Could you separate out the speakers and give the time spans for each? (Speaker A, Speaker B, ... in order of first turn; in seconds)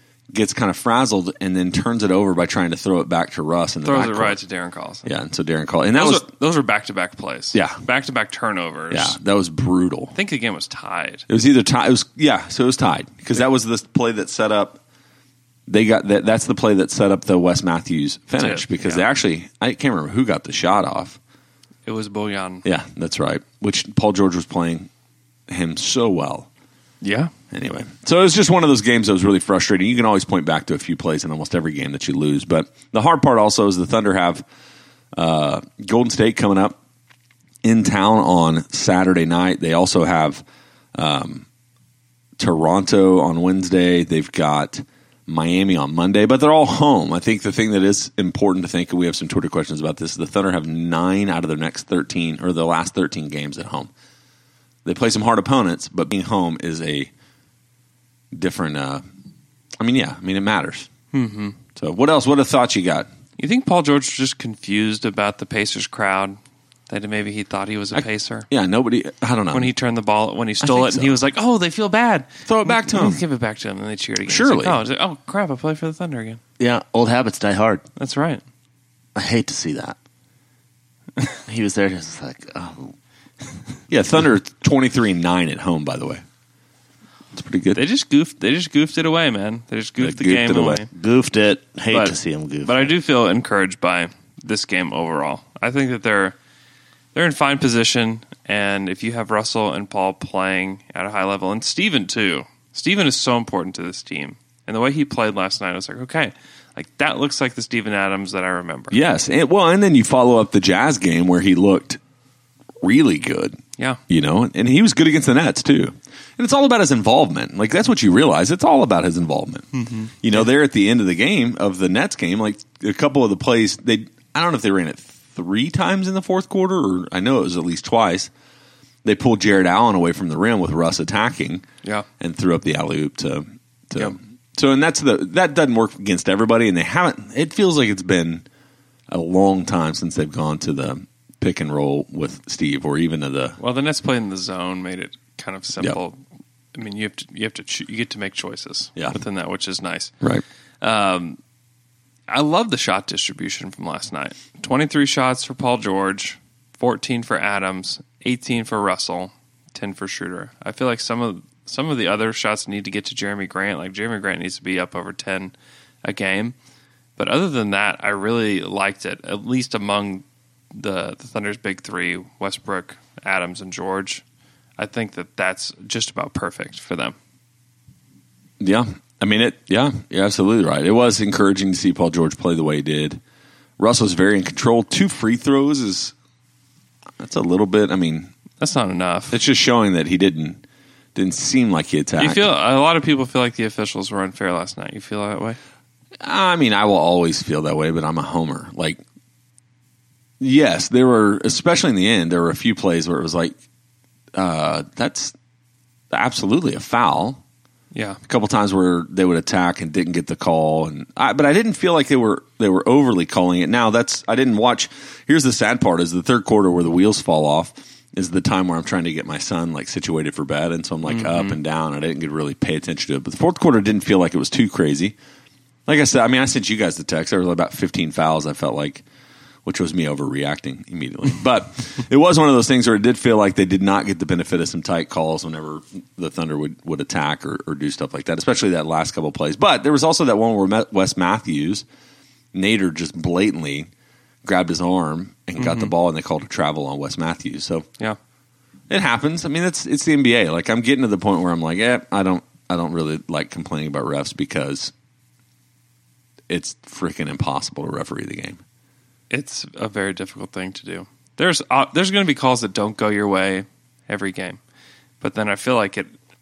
Speaker A: 0.3-4.4, 5.0-6.3, 7.5-7.8, 8.9-10.2, 11.3-14.8, 15.7-21.2, 22.6-24.9, 25.5-26.5, 27.5-34.5, 35.1-36.8, 37.6-41.5, 42.4-53.9, 54.9-57.1, 58.3-59.0, 59.8-60.9, 61.8-63.1, 67.9-69.7, 70.6-71.2, 72.5-73.2, 74.2-74.8, 83.9-86.2, 87.3-87.8, 90.0-90.9, 108.9-112.0, 112.8-128.3, 129.0-131.7, 132.2-138.4, 139.1-143.6, 178.6-183.2, 183.8-186.1, 187.2-188.3, 189.3-190.6, 191.2-192.5, 196.2-199.0, 200.4-203.6, 204.3-205.3, 206.1-207.4, 208.3-225.2, 225.9-229.0, 229.7-241.8, 242.5-243.9, 244.4-247.9, 248.9-254.9, 256.5-258.6
Speaker B: 3.8-5.1, 5.9-9.2, 10.1-11.3, 18.4-19.1, 21.9-22.6, 27.0-27.3, 61.1-61.6, 63.4-68.5, 69.5-76.4, 78.0-78.4, 87.8-90.9, 91.9-96.4, 97.2-109.0, 119.7-120.5, 143.6-146.2, 146.7-150.1, 150.8-151.4, 152.3-166.6, 167.2-174.2, 174.8-177.2, 188.6-189.4, 192.2-195.6, 207.9-208.2, 221.1-221.6, 245.6-245.9, 259.3-264.6, 265.2-266.1
Speaker C: 76.6-77.8, 79.2-80.0, 81.5-82.9, 90.9-92.9